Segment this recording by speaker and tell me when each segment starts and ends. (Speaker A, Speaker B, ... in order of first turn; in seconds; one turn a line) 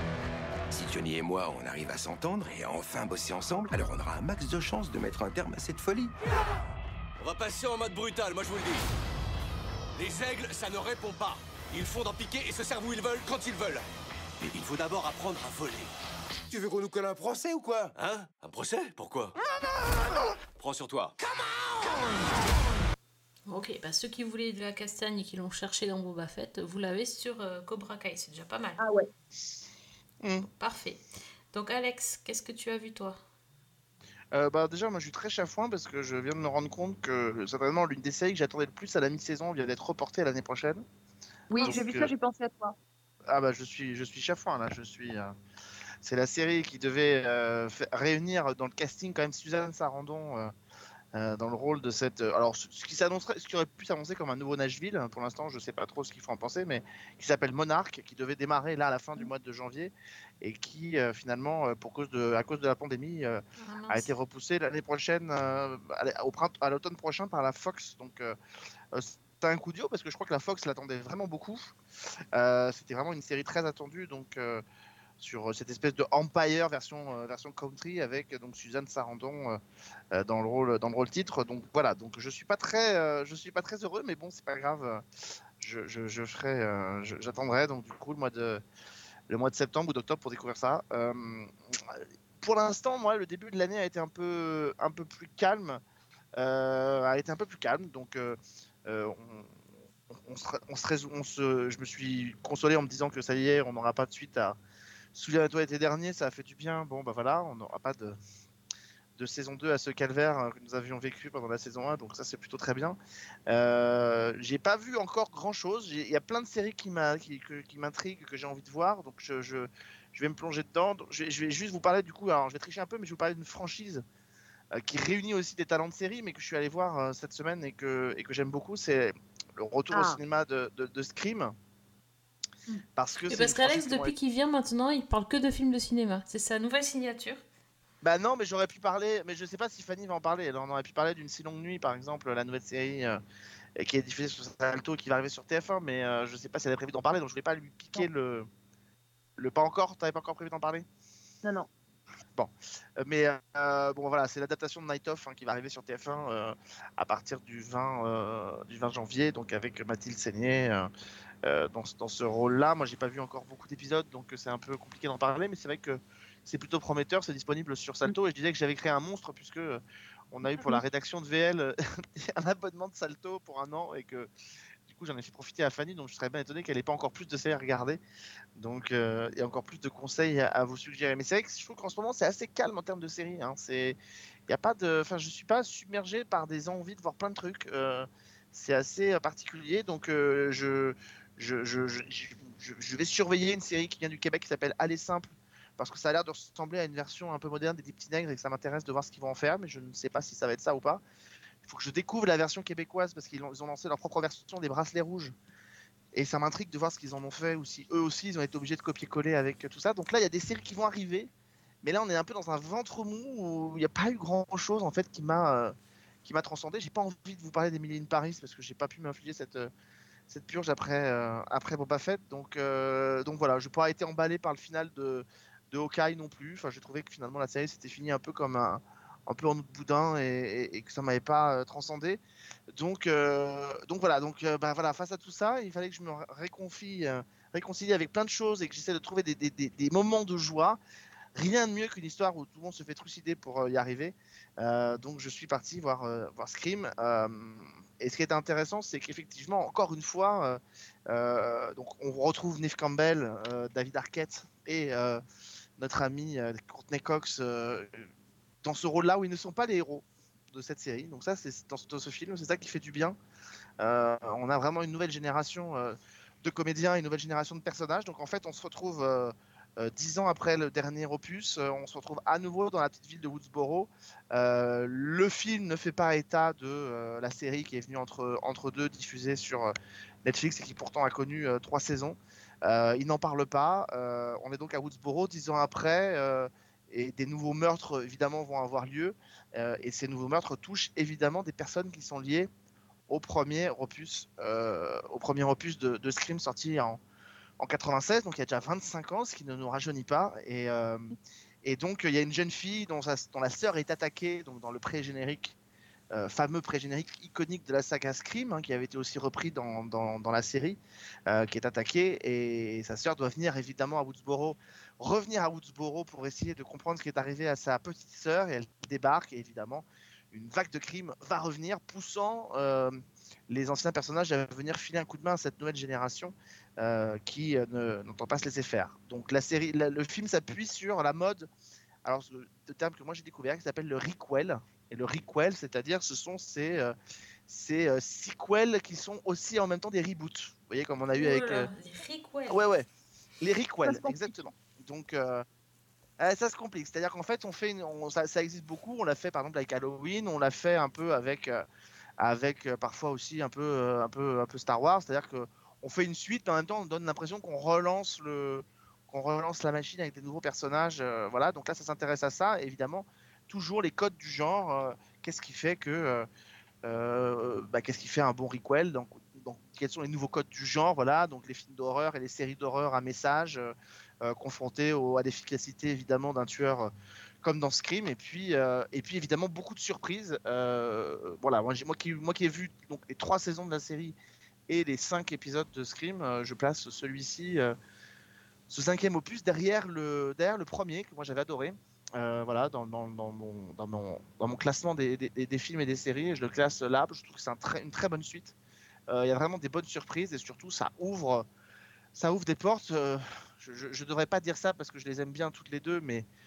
Speaker A: 0.7-6.1
Speaker B: 7.2-8.8
Speaker B: 9.9-13.8
Speaker B: 14.4-15.9
Speaker B: 16.5-19.3
Speaker B: 20.6-21.2
Speaker C: 23.5-28.8
Speaker D: 28.8-29.1
Speaker E: 30.2-30.5
Speaker C: 30.6-31.0
Speaker C: 31.5-33.2
Speaker E: 34.3-40.8
Speaker D: 41.5-42.7
Speaker E: 41.6-42.1
Speaker E: 43.3-45.3
Speaker E: 46.0-50.5
Speaker E: 51.1-68.4
Speaker C: 63.6-64.1
Speaker E: 68.9-71.8
Speaker E: 72.3-74.6
Speaker E: 75.2-79.6
Speaker E: 80.1-85.0
Speaker E: 85.6-88.6
Speaker E: 89.3-95.8
Speaker E: 96.4-99.5
Speaker E: 100.1-104.6
Speaker E: 105.1-108.2
Speaker E: 109.2-113.0
Speaker E: 113.5-124.0
Speaker E: 124.7-131.5
Speaker D: 129.9-130.2
Speaker E: 132.9-134.1
Speaker C: 133.3-137.4
Speaker E: 138.0-143.2
Speaker E: 143.8-148.5
Speaker E: 149.4-150.8
Speaker E: 152.3-160.9
Speaker E: 161.4-174.3
Speaker D: 170.5-170.8
Speaker E: 174.9-178.0
Speaker E: 178.6-201.0
Speaker E: 201.6-205.3
Speaker E: 206.1-211.3
Speaker E: 211.8-219.7
Speaker E: 220.3-232.2
Speaker E: 232.7-240.8
Speaker E: 241.3-255.2
Speaker E: 255.8-258.1
Speaker E: 258.6-263.2
Speaker E: 263.8-279.7
Speaker E: 280.2-292.5
Speaker E: 293.1-297.0
Speaker E: 297.6-305.6
Speaker E: 306.1-331.5
Speaker E: 332.0-336.9
Speaker E: 337.5-341.7
Speaker C: 341.1-342.6
Speaker E: 342.5-342.9
Speaker E: 343.4-345.4
Speaker D: 343.9-344.3
Speaker E: 346.2-351.6
Speaker E: 352.2-366.3
Speaker E: 366.8-376.9
Speaker E: 377.4-384.2
Speaker E: 384.7-387.8
Speaker E: 388.7-398.5
Speaker E: 399.1-401.5
Speaker E: 402.1-406.3